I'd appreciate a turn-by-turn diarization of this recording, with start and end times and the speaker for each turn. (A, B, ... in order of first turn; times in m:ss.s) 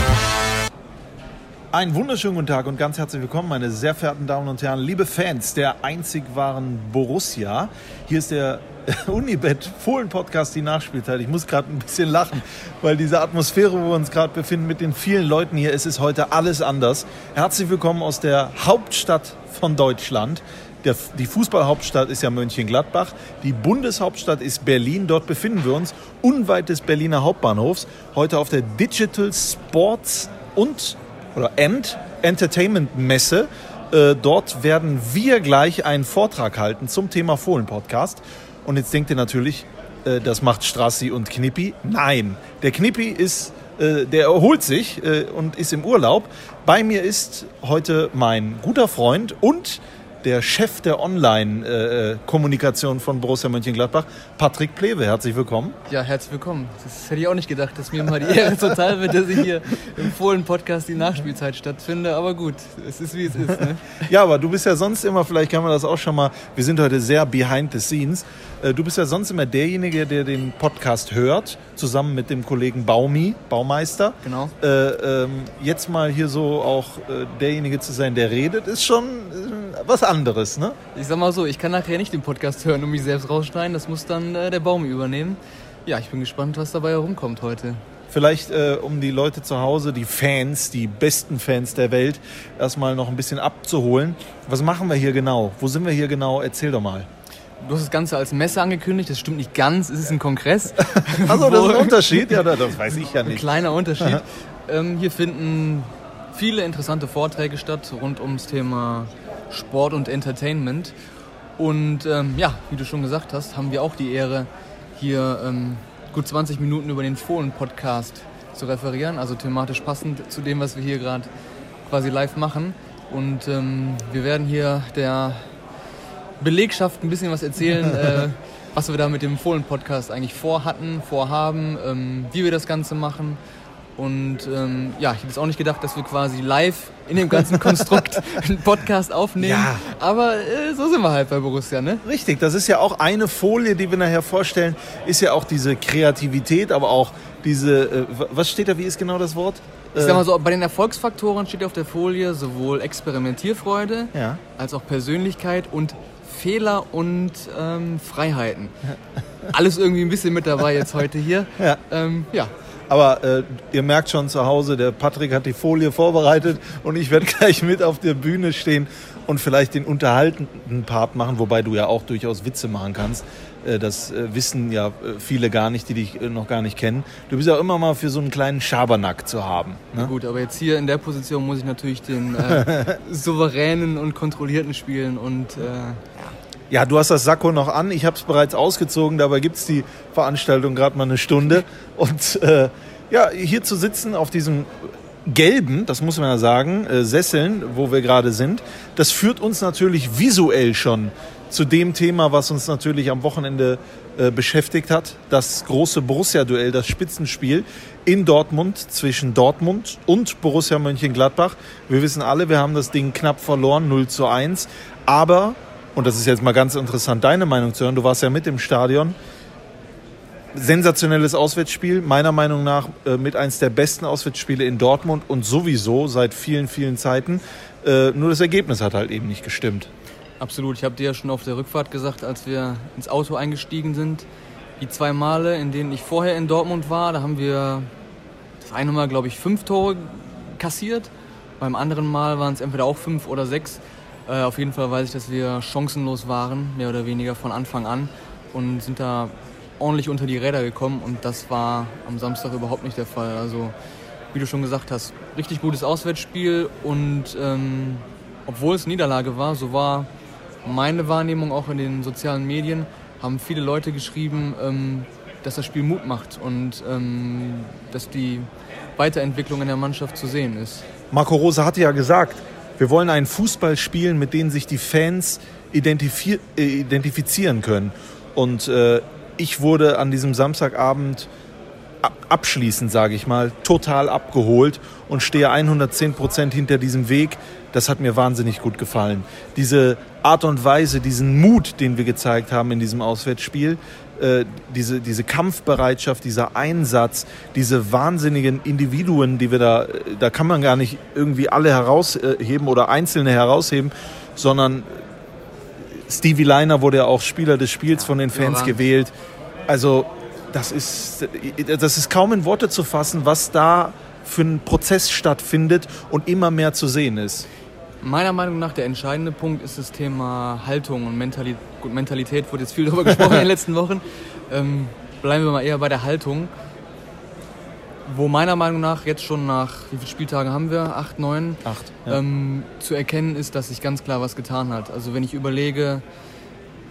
0:01.7-0:55.8 A
0:55.9-1:04.0 B
1:04.0-1:20.8 A
1:14.2-1:14.5 B
1:20.9-1:27.8 B
1:28.1-1:37.1 A
1:37.6-1:42.4 B
1:40.9-1:43.5 A
1:43.2-1:50.9 B
1:51.6-2:01.3 B
2:01.9-2:05.4 B
2:06.4-2:13.4 B
2:14.0-2:22.0 B
2:17.6-2:18.0 A
2:19.4-2:19.8 A
2:22.0-2:30.2 A
2:29.9-2:38.8 B
2:34.1-2:34.4 A
2:39.5-2:42.5 B
2:42.9-3:00.1 A
3:00.0-3:06.3 B
3:06.7-3:39.2 A
3:40.5-3:49.9 A
3:50.4-3:54.3 B
3:54.8-3:57.9 B
3:58.6-4:01.1 B
4:01.6-4:13.8 B
4:14.3-4:20.1 B
4:20.6-4:30.8 B
4:31.1-4:41.3 A
4:42.0-5:05.0 A
5:05.9-5:09.1 A
5:08.2-5:08.8 B
5:09.7-5:17.4 A
5:18.0-5:26.5 B
5:28.0-5:36.0 B
5:31.6-5:32.2 A